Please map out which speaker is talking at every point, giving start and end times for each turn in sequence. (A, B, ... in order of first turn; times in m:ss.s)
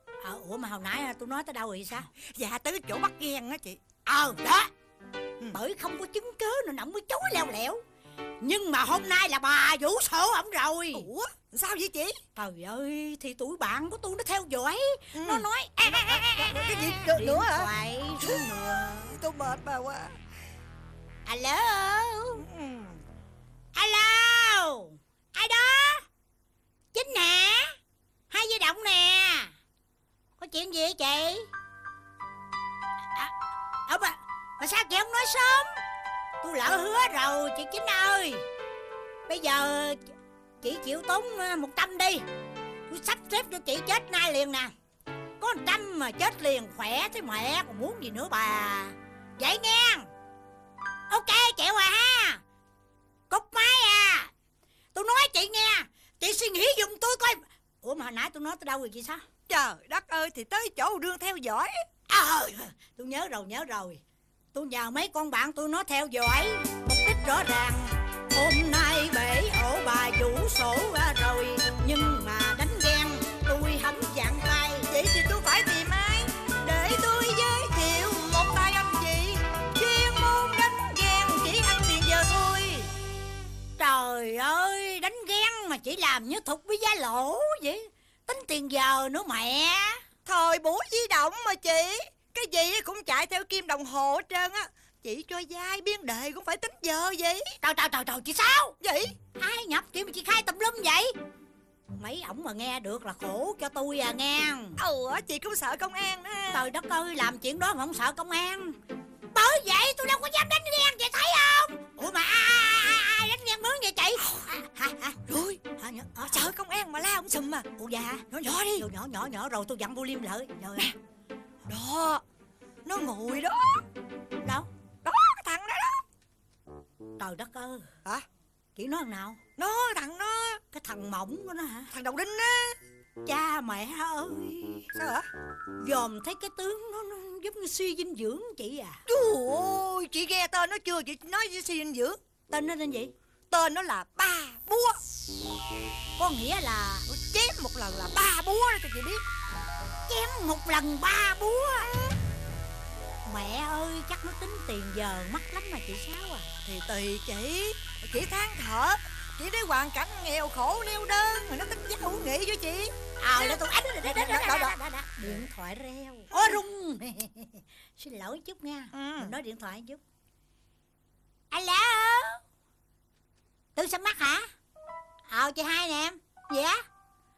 0:00.2-0:02.1 A
0:02.2-0:03.8 B
0:04.1-0:04.7 A
0:05.5-0:07.8 A
0:08.4-0:11.1 A
0:10.9-0:12.2 B
0:12.4-0:19.1 A
0:15.2-0:17.7 B
0:18.2-0:20.2 B
0:21.3-0:22.4 A
0:22.4-0:23.0 B
0:23.8-0:26.0 A
0:26.9-0:27.8 A
0:28.3-0:29.5 A
0:30.4-0:31.5 A
0:33.9-0:35.8 A
0:36.4-0:38.4 A
0:39.3-0:40.1 A
0:40.6-0:42.2 A
0:42.9-0:44.7 A
0:45.4-0:50.1 A
0:51.1-0:52.4 A
0:53.3-0:54.3 A
0:54.9-0:59.2 A
0:59.5-1:01.8 B
1:02.1-1:04.0 A
1:04.5-1:14.9 A
1:14.9-1:22.9 B
1:23.8-1:30.0 A
1:30.3-1:37.5 B
1:37.6-1:38.8 A
1:38.8-1:39.2 B
1:39.4-1:41.1 A
1:42.0-1:44.8 A
1:44.8-1:46.7 B
1:46.5-1:48.8 A
1:49.3-1:55.2 A
1:55.3-1:55.6 B
1:55.8-1:56.5 A
1:56.3-1:57.7 B
1:57.8-2:00.9 A
1:58.3-1:58.8 B
2:01.7-2:02.2 B
2:02.8-2:03.8 B
2:05.0-2:06.0 B
2:07.2-2:07.9 A
2:08.8-2:09.4 A
2:09.6-2:10.6 B
2:10.7-2:11.9 A
2:11.9-2:12.8 B
2:13.3-2:14.9 A
2:15.0-2:15.3 B
2:15.8-2:19.0 A
2:19.1-2:22.2 B
2:22.5-2:23.1 A
2:23.5-2:25.0 B
2:26.2-2:27.1 A
2:27.1-2:29.2 B
2:30.1-2:31.9 A
2:33.3-2:36.5 A
2:36.6-2:44.7 B
2:43.2-2:50.0 A
2:46.3-2:46.6 B
2:48.9-2:49.4 B
2:51.5-2:52.4 A
2:53.8-2:54.5 A
2:55.3-2:56.8 A